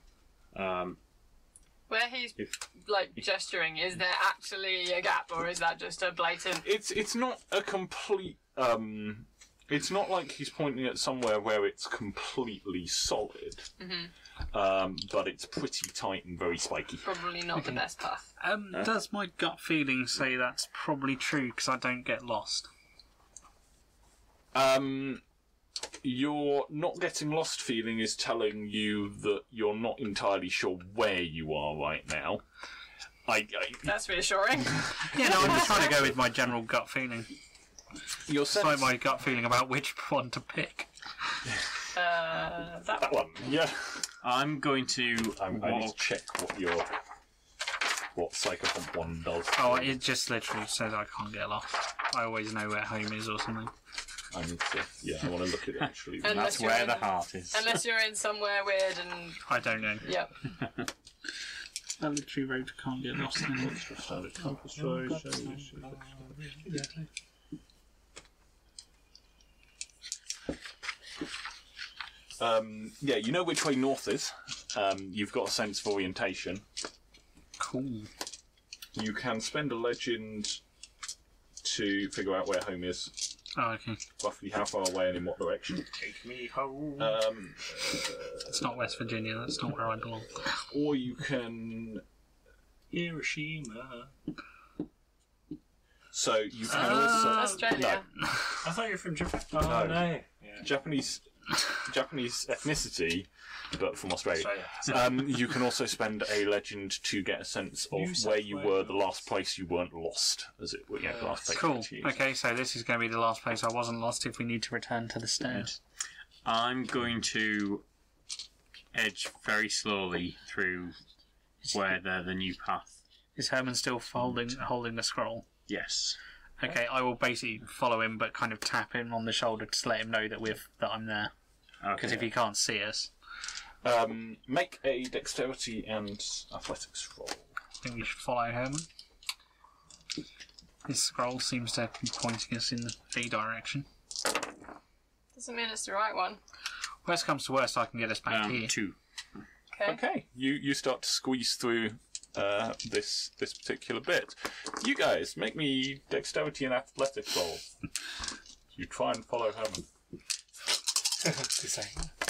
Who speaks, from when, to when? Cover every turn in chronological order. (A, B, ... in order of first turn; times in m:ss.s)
0:00.5-0:01.0 A
0:01.9-0:06.6 B
0:06.6-0:13.7 C
0:13.8-0:14.1 B
0:14.5-0:17.1 C
0:17.0-0:18.3 B
0:17.6-0:17.8 D
0:18.4-0:22.7 D
0:24.5-0:25.2 C
0:26.0-0:32.4 C
0:33.3-0:33.9 C
0:33.8-0:35.9 B
0:34.9-0:36.1 C
0:35.1-0:37.3 D
0:38.3-0:38.9 C
0:38.5-0:40.9 D
0:41.9-0:43.1 B
0:43.0-0:44.1 C
0:44.2-0:46.0 A
0:45.4-0:46.9 C
0:48.1-0:50.0 C
0:49.5-0:53.7 D
0:54.3-0:56.6 C
0:56.2-0:57.7 A
0:56.2-0:59.4 B
0:59.5-1:00.1 D
1:00.0-1:00.3 B
1:02.0-1:03.8 D
1:03.5-1:06.0 C
1:05.0-1:06.9 E
1:12.4-1:16.6 C
1:17.6-1:18.1 D
1:18.9-1:20.6 C
1:21.6-1:23.3 C
1:23.6-1:24.0 D
1:24.2-1:25.9 C
1:25.9-1:27.2 E
1:27.0-1:32.0 C
1:28.5-1:30.5 D
1:32.9-1:34.1 E
1:36.1-1:38.0 C
1:36.7-1:38.1 B
1:36.8-1:37.6 D
1:38.2-1:38.6 D
1:38.6-1:40.7 E
1:39.6-1:52.2 C
1:44.4-1:45.0 E
1:47.9-1:49.0 E
1:51.5-1:55.7 D
1:56.4-1:57.8 A
1:58.9-2:01.0 A
2:01.7-2:03.0 A
2:03.4-2:05.5 D
2:05.7-2:06.2 A
2:06.6-2:11.3 D
2:11.8-2:12.3 A
2:12.0-2:13.1 D
2:13.8-2:17.5 C
2:17.8-2:18.9 D
2:20.8-2:23.9 D
2:25.4-2:26.4 B
2:27.0-2:28.7 D
2:28.3-2:29.0 A
2:29.7-2:30.0 B
2:29.8-2:37.6 C
2:38.7-2:39.8 C
2:41.3-2:42.1 E